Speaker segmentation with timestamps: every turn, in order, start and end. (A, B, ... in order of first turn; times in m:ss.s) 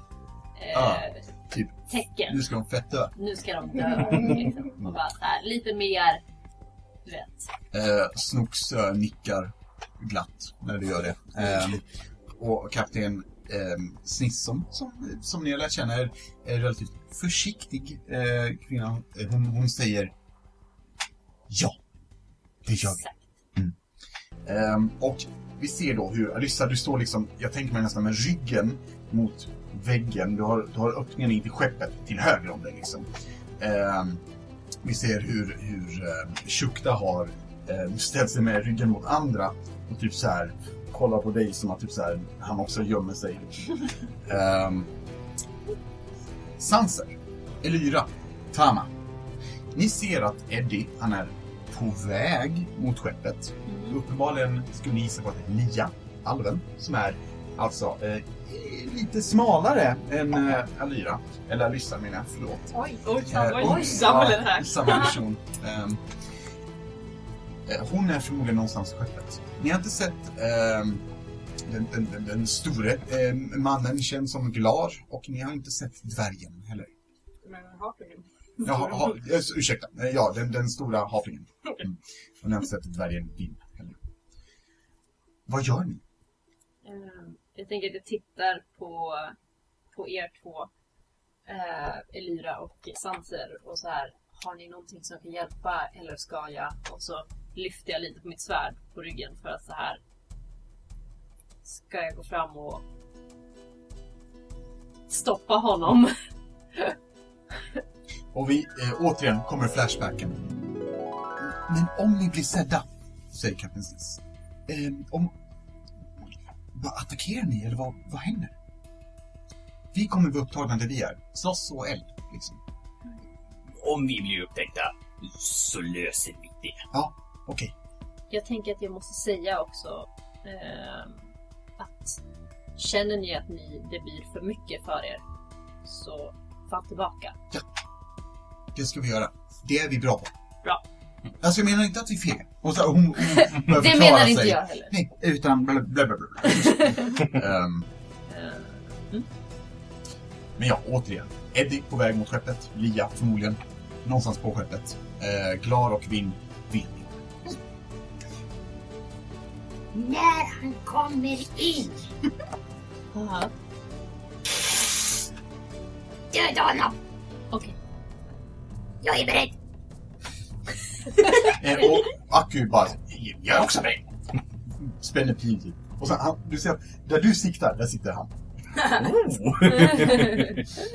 0:00.6-0:01.3 A
0:00.7-0:03.1 B
0:01.9-0:02.5 A
0:03.1-0:06.2 A
0:07.0-0:07.5 A
0:07.7-0:11.8 B
0:12.4-0:20.1 B
0:21.5-0:21.8 B
0:22.6-0:23.0 B
0:22.8-0:23.2 A
0:24.4-0:33.1 B
0:33.6-0:34.2 B
0:34.8-0:44.9 B
0:46.6-0:48.9 B
0:49.7-1:02.7 B
1:03.0-1:05.2 C
1:03.3-1:06.0 B
1:07.7-1:11.0 B
1:11.6-1:16.9 B
1:17.4-1:19.1 C
1:18.6-1:24.0 B
1:25.5-1:26.0 B
1:26.8-1:29.4 A
1:29.9-1:30.7 A
1:31.5-1:40.0 A
1:41.6-1:42.8 A
1:45.1-1:46.2 A
1:48.3-1:50.5 B
1:51.4-1:55.3 B
1:56.7-1:58.5 B
1:59.9-2:02.6 B
2:03.8-2:06.8 D
2:06.9-2:07.7 B
2:08.3-2:11.3 A
2:11.8-2:12.2 A
2:12.8-2:15.2 A
2:15.8-2:17.4 A
2:18.7-2:20.3 B
2:21.4-2:27.9 B
2:23.2-2:25.0 A
2:26.5-2:27.2 A
2:28.3-2:29.3 A
2:30.6-2:37.6 B
2:39.9-2:42.0 E
2:43.1-2:43.5 A
2:46.3-2:47.0 E
2:49.0-2:49.5 E
2:51.4-2:54.0 B
2:54.8-2:58.3 B
2:58.8-3:00.6 D
2:59.8-3:00.3 A